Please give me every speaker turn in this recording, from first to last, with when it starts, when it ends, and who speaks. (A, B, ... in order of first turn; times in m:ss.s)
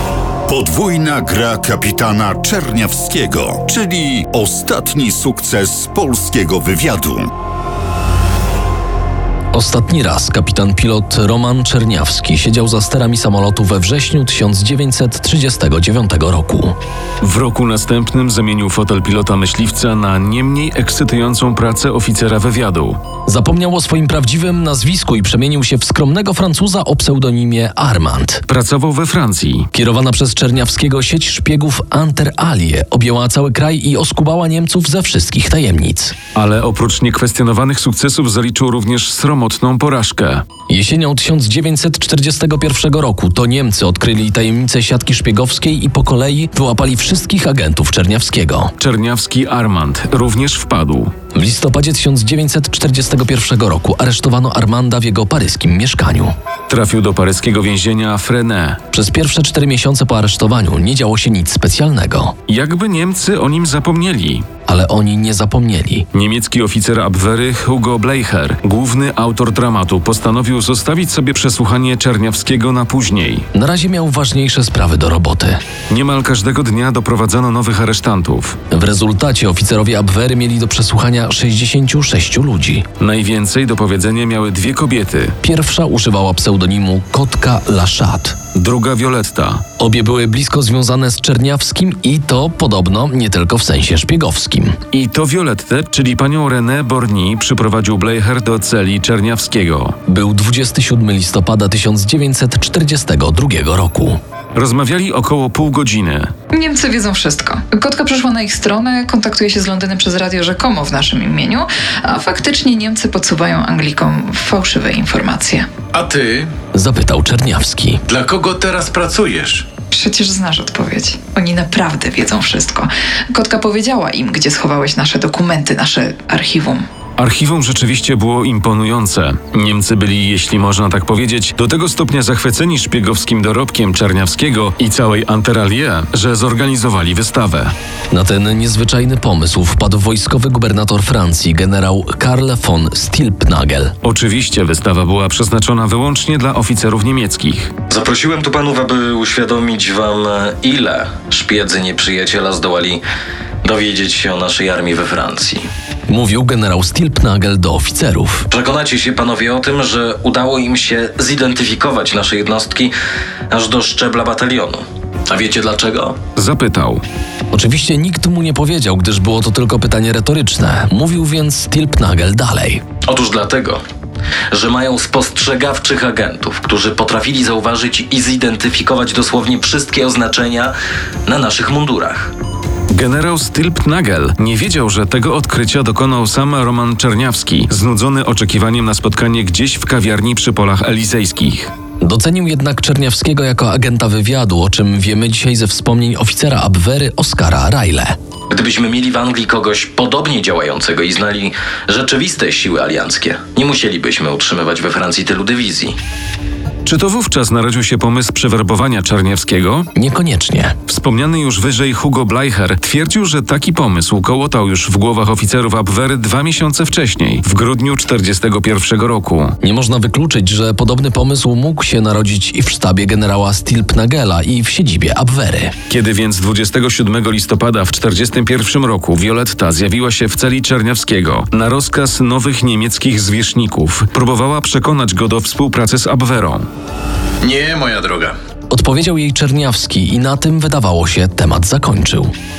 0:00.5-0:07.3 A
0:09.5-0:16.8 B
0:17.2-0:23.0 C
0:23.3-0:28.4 B
0:28.5-0:29.7 C
0:29.7-0:36.1 B
0:36.3-0:40.5 C
0:40.7-0:48.7 B
0:48.8-0:51.1 C
0:51.3-0:56.3 B
0:56.7-0:58.8 C
0:58.9-1:02.4 B
1:02.5-1:04.5 C
1:04.7-1:06.1 B
1:06.1-1:13.5 C
1:13.5-1:15.6 B
1:15.9-1:18.6 C
1:18.7-1:22.8 B
1:23.0-1:25.4 C
1:25.4-1:28.4 B
1:28.5-1:29.6 C
1:29.8-1:34.8 B
1:34.9-1:40.0 C
1:40.1-1:44.2 B
1:44.5-1:46.3 C
1:46.5-1:55.7 D
1:55.9-1:56.5 E
1:56.7-1:58.0 B
1:58.1-1:59.7 E
1:59.9-2:06.8 D
2:07.2-2:17.7 C
2:18.1-2:23.9 B
2:24.0-2:27.7 C
2:27.9-2:33.0 F
2:33.6-2:35.7 F
2:36.1-2:38.5 B
2:38.5-2:42.9 F
2:43.5-2:46.2 F
2:46.4-2:47.0 C
2:47.5-2:52.8 B
2:53.0-2:53.8 F
2:54.5-3:00.7 F
3:01.2-3:02.3 F
3:02.9-3:11.7 C
3:12.0-3:18.2 B
3:18.5-3:26.0 F
3:26.8-3:29.9 C
3:29.9-3:30.8 B
3:30.9-3:39.6 C
3:39.6-3:45.7 B
3:45.9-3:56.6 C
3:57.4-3:58.3 E
3:58.7-4:02.3 B